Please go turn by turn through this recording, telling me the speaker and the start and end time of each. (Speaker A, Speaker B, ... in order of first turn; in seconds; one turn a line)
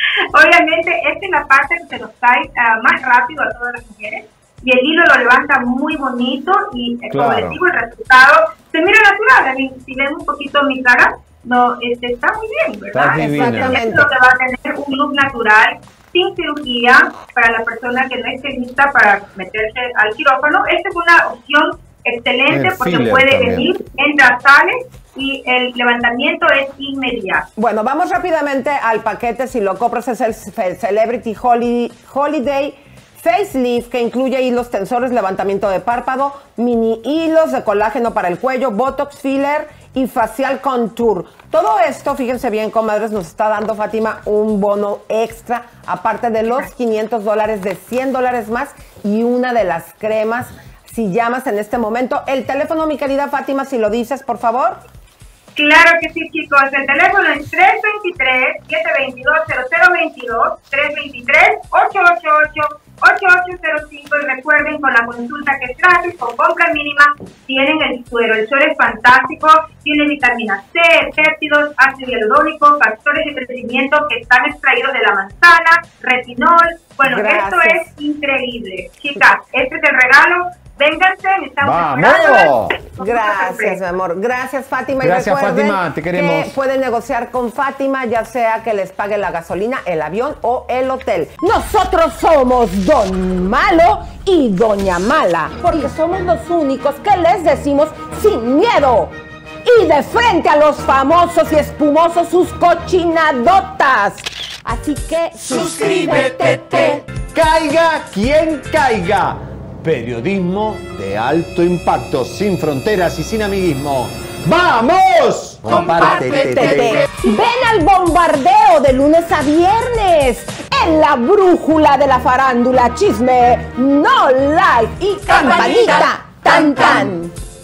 Speaker A: 0.3-27.4
Speaker B: 7.1-7.6
Speaker B: 12.9-13.8
Speaker C: 13.1-14.1
Speaker B: 22.5-23.7
Speaker C: 27.6-54.8
Speaker A: 55.6-83.8
Speaker C: 77.0-77.9
Speaker B: 81.6-82.8
Speaker C: 83.0-107.0
Speaker B: 85.0-86.5
Speaker B: 105.6-117.0
Speaker C: 115.8-127.3